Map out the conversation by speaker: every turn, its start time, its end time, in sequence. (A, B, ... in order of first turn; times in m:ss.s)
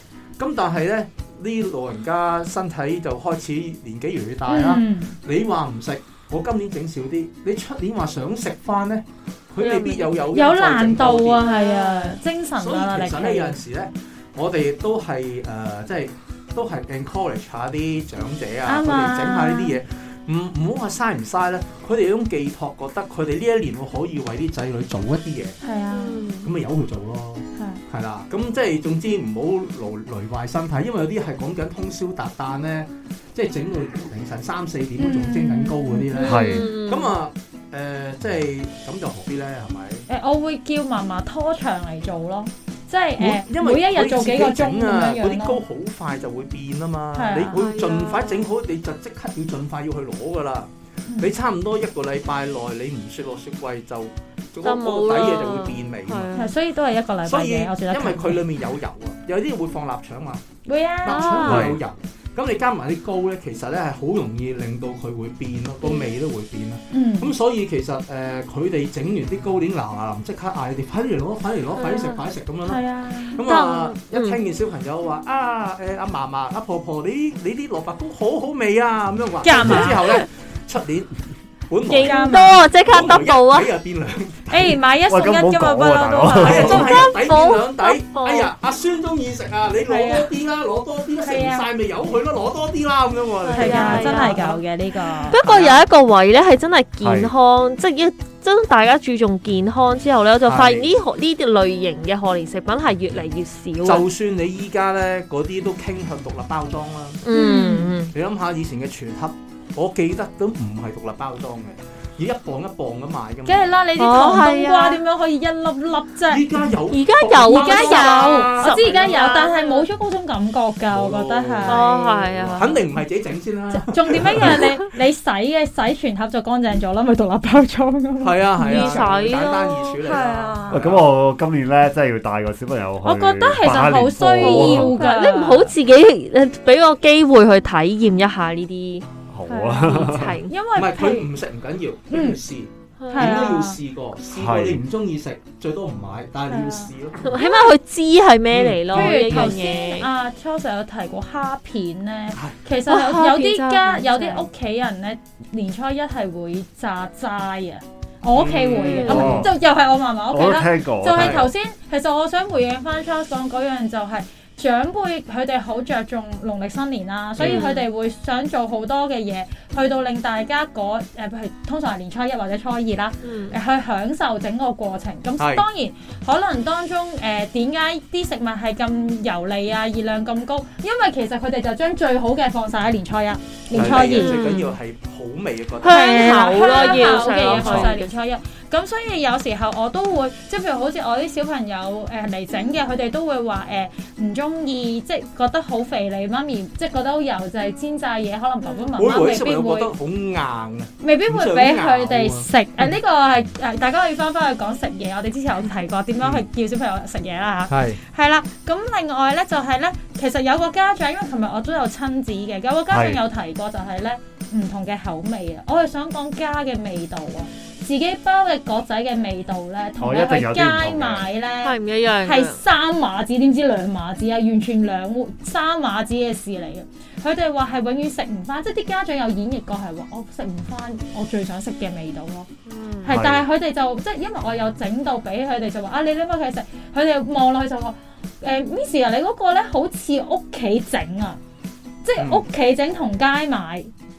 0:00.4-0:11.5 A
0:04.5-0:05.2 B
0:09.6-0:13.6 B
0:11.4-0:12.2 C
0:12.5-0:25.6 A
0:18.6-0:19.8 B
0:25.6-0:26.2 B
0:25.9-0:26.5 C
0:26.4-0:40.0 A
0:35.0-0:36.4 B
0:36.1-0:37.1 C
0:36.2-0:36.7 D
0:40.1-0:45.6 B
0:43.2-0:56.5 A
0:47.1-0:47.6 B
0:47.4-0:48.5 C
0:51.1-0:51.3 B
0:54.6-0:56.5 C
0:56.3-0:58.4 B
0:57.2-1:00.4 A
1:00.6-1:01.5 B
1:01.0-1:12.8 A
1:01.0-1:01.8 C
1:01.4-1:01.8 D
1:05.8-1:06.1 C
1:06.9-1:07.3 B
1:11.7-1:12.2 C
1:12.6-1:13.4 B
1:13.4-1:21.1 A
1:13.4-1:14.4 C
1:19.4-1:20.2 B
1:19.6-1:20.2 C
1:21.7-1:24.8 A
1:21.9-1:23.8 C
1:22.0-1:22.6 B
1:24.5-1:27.1 B
1:25.1-1:26.9 D
1:26.3-1:34.6 A
1:26.6-1:28.5 C
1:29.9-1:30.3 B
1:31.2-1:31.7 B
1:33.4-1:34.4 C
1:33.5-1:35.4 B
1:35.3-1:44.0 C
1:35.3-1:35.8 A
1:37.0-1:37.3 D
1:40.4-1:40.9 A
1:43.8-1:47.2 A
1:47.2-1:48.1 C
1:47.3-1:48.0 B
1:48.1-1:53.7 A
1:53.4-1:56.7 B
1:54.0-1:55.0 C
1:56.3-1:59.5 A
1:56.9-1:59.8 C
1:57.4-2:01.9 B
2:00.9-2:04.6 A
2:01.6-2:02.8 C
2:03.7-2:10.8 B
2:08.2-2:11.1 A
2:08.6-2:10.0 C
2:10.7-2:15.0 D
2:13.0-2:15.7 B
2:14.4-2:19.0 C
2:19.3-2:20.4 D
2:19.5-2:21.3 B
2:19.8-2:20.5 C
2:20.7-2:27.3 A
2:22.1-2:22.4 B
2:23.0-2:23.5 C
2:23.1-2:23.8 B
2:24.3-2:24.8 D
2:26.5-2:27.7 B
2:27.2-2:30.1 C
2:28.5-2:29.6 A
2:28.9-3:04.4 B
2:32.9-2:34.5 C
2:38.3-2:39.5 A
2:38.8-2:39.4 C
2:39.1-2:39.6 D
2:40.3-2:41.5 D
2:41.1-2:41.5 A
2:47.4-2:47.6 A
2:47.4-2:47.9 C
2:53.2-2:53.6 C
2:55.4-2:55.6 A
3:03.7-3:07.9 A
3:03.8-3:04.0 D
3:03.9-3:04.8 C
3:05.8-3:08.1 C
3:05.8-3:19.9 B
3:18.6-3:18.9 C
3:19.0-3:22.5 A
3:21.0-3:52.5 B
3:27.7-3:28.0 A
3:32.9-3:33.2 D
3:40.0-3:41.3 D
3:41.6-3:42.6 C
3:52.6-3:53.1 C
3:53.0-4:01.4 B
3:53.1-3:53.5 D
4:02.0-4:03.9 B
4:02.2-4:02.4 A